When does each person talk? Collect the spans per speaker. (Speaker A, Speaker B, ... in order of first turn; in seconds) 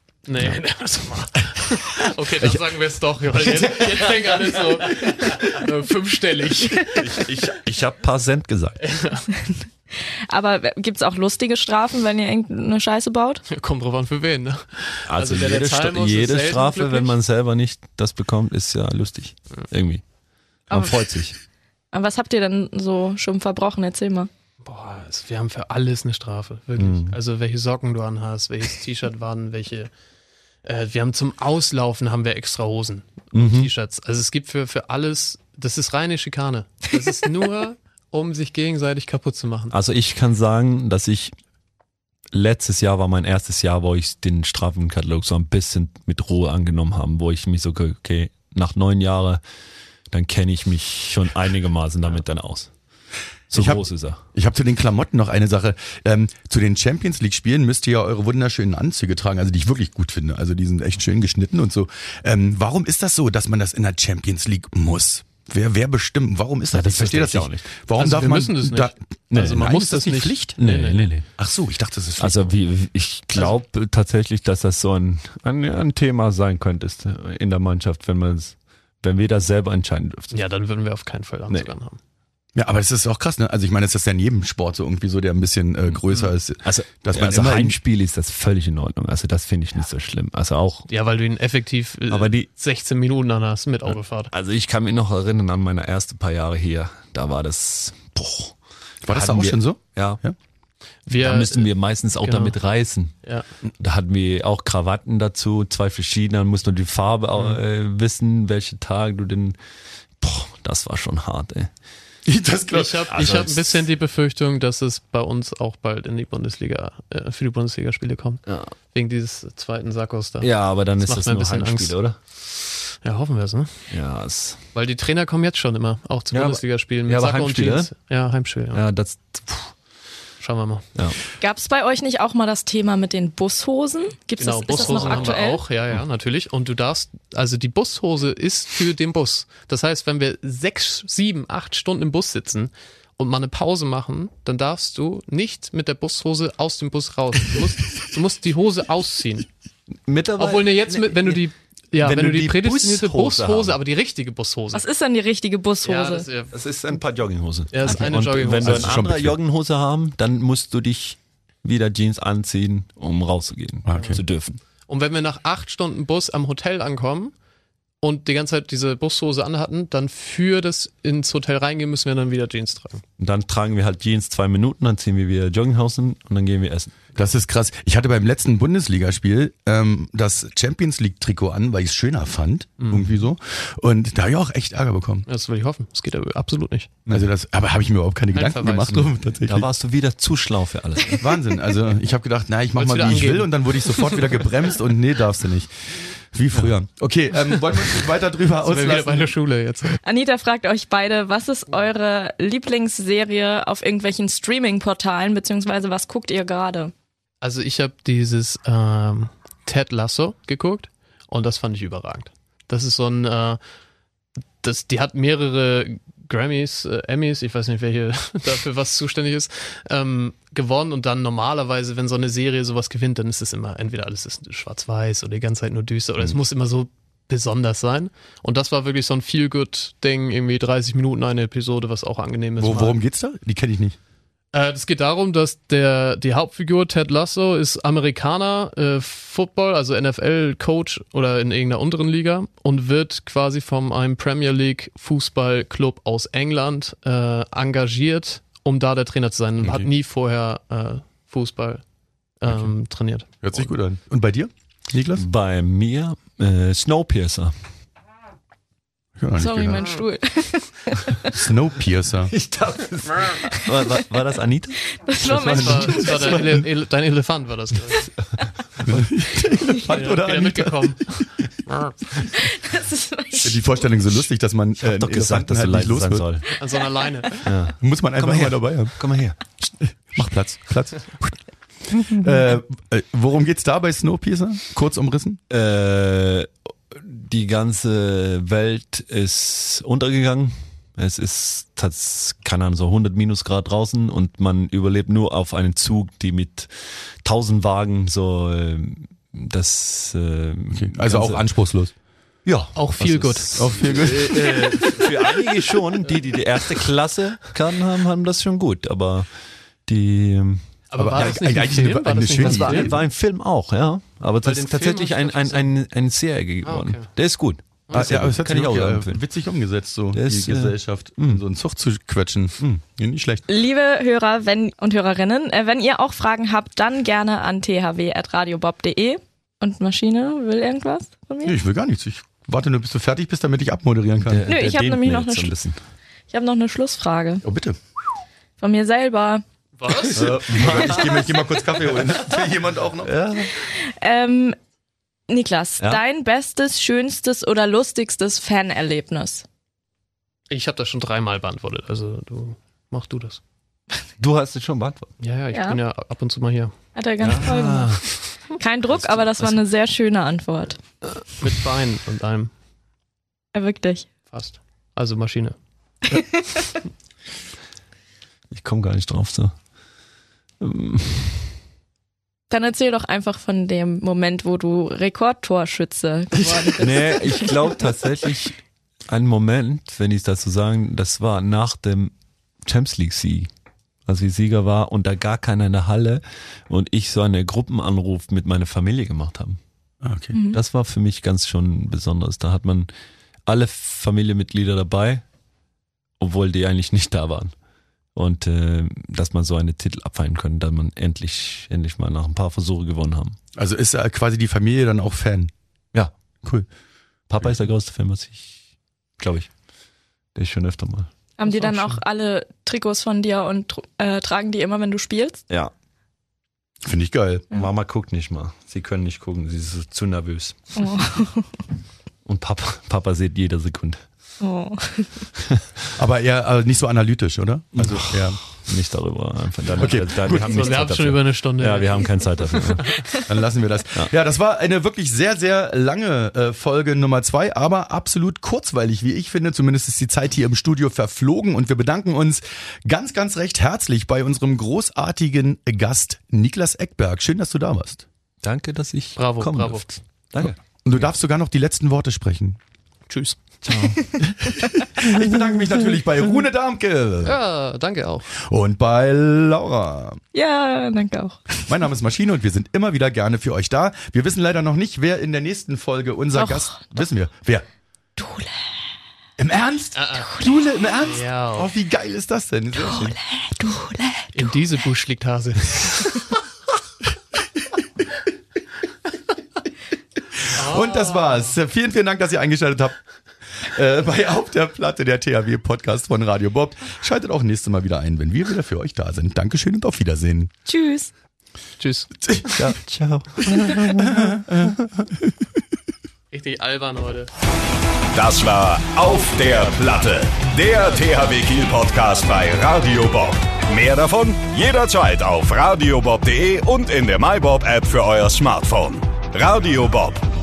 Speaker A: 0.2-7.4, 8.8-9.3, 13.5-17.1, 24.6-29.9, 30.6-39.7, 68.0-71.1, 80.3-82.0, 90.9-94.3, 101.1-101.7, 102.2-102.5, 112.7-121.9, 123.0-123.8, 124.7-128.8, 130.4-130.9, 134.4-149.5, 150.4-154.8, 155.8-156.5, 157.7-159.0, 163.9-164.2, 164.9-167.3, 168.0-173.0, 182.8-183.1, 185.3-187.0, 188.3-189.1, 192.8-194.4, 198.6-200.0, 207.4-213.6, 214.6-233.0, 234.5-251.8, 252.4-253.7, 265.5-268.1, 269.9-271.9, 276.6-277.4, 302.7-305.1, 310.9-313.0, 314.4-315.7, 316.6-317.1, 317.9-318.2, 339.8-340.4, 350.5-353.4, 355.2-356.7, 361.4-362.5, 364.3-365.6, 411.5-412.0, 430.4-433.1, 449.1-449.9, 453.1-453.4, 457.2-458.3, 469.9-470.3, 471.0-471.7, 474.3-475.8, 480.5-481.5, 491.8-492.1, 496.3-497.3
Speaker B: 7.0-8.9, 15.1-20.0, 20.7-21.3, 26.8-27.2, 33.3-33.7, 39.7-41.3, 42.3-49.4, 50.1-52.7, 53.5-54.2, 66.7-67.7, 70.6-71.2, 72.2-80.3, 86.0-90.9, 92.1-92.5, 94.3-98.5, 99.1-100.2, 101.1-103.2, 103.8-109.5, 110.2-111.7, 113.1-113.8, 118.5-118.7, 120.4-122.2, 123.9-124.6, 126.3-127.9, 128.7-129.7, 134.7-135.2, 150.1-151.4, 152.0-153.8, 156.5-164.6, 173.2-176.9, 188.9-191.3, 255.2-257.5, 262.3-265.0, 274.8-276.5, 277.4-279.4, 285.5-301.4, 302.4-309.3, 309.9-311.3, 312.4-319.2, 320.1-321.4, 334.2-335.8, 340.0-341.3, 343.0-343.5, 354.2-355.1, 357.2-358.2, 359.0-359.6, 368.5-369.5, 370.6-371.5, 376.8-382.1, 382.6-383.5, 384.1-389.6, 390.5-392.9, 393.4-395.2, 396.2-397.5, 398.1-403.4, 407.3-408.6, 409.2-409.5, 410.3-411.1, 417.5-420.6, 422.2-424.0, 427.7-433.1, 448.4-450.6, 453.6-454.3, 492.6-494.5
Speaker C: 10.1-13.4, 20.7-21.0, 21.9-24.3, 131.4-135.6, 154.7-156.3, 200.0-206.9, 259.4-261.3, 264.9-266.4, 272.4-273.8, 276.6-277.5, 323.5-331.6, 334.5-335.5, 336.3-337.4, 338.6-339.4, 343.6-344.6, 345.3-349.4, 355.5-355.8, 356.9-360.8, 363.5-364.1, 366.1-366.6, 372.5-377.7, 390.3-390.6, 411.4-415.4, 420.8-421.5, 424.4-425.2, 460.3-461.7, 466.3-466.8, 468.2-468.6, 470.3-470.6, 472.8-474.6, 490.6-491.1
Speaker D: 53.5-70.6, 71.3-72.5, 82.5-87.8, 99.0-100.3, 112.2-113.2, 158.3-159.4, 163.8-164.2, 177.1-185.3, 187.1-189.7, 191.2-199.3, 232.6-234.0, 249.6-249.9, 253.4-255.3, 259.2-259.9, 261.3-262.3, 265.3-266.5, 268.8-271.0, 273.4-276.3, 277.8-278.9, 279.8-281.4, 281.9-285.4, 300.7-301.9, 303.6-304.9, 311.0-313.0, 317.9-323.4, 331.4-334.4, 337.4-337.8, 340.1-343.1, 376.4-376.7, 390.0-390.4, 403.6-405.5, 416.8-417.5, 425.9-428.4, 429.7-430.8, 433.3-448.0, 450.4-452.6, 455.0-457.4, 458.4-460.2, 461.7-467.6, 469.4-473.2, 480.4-482.9, 483.6-490.5, 492.2-492.6, 493.7-494.7
Speaker E: 498.1-510.2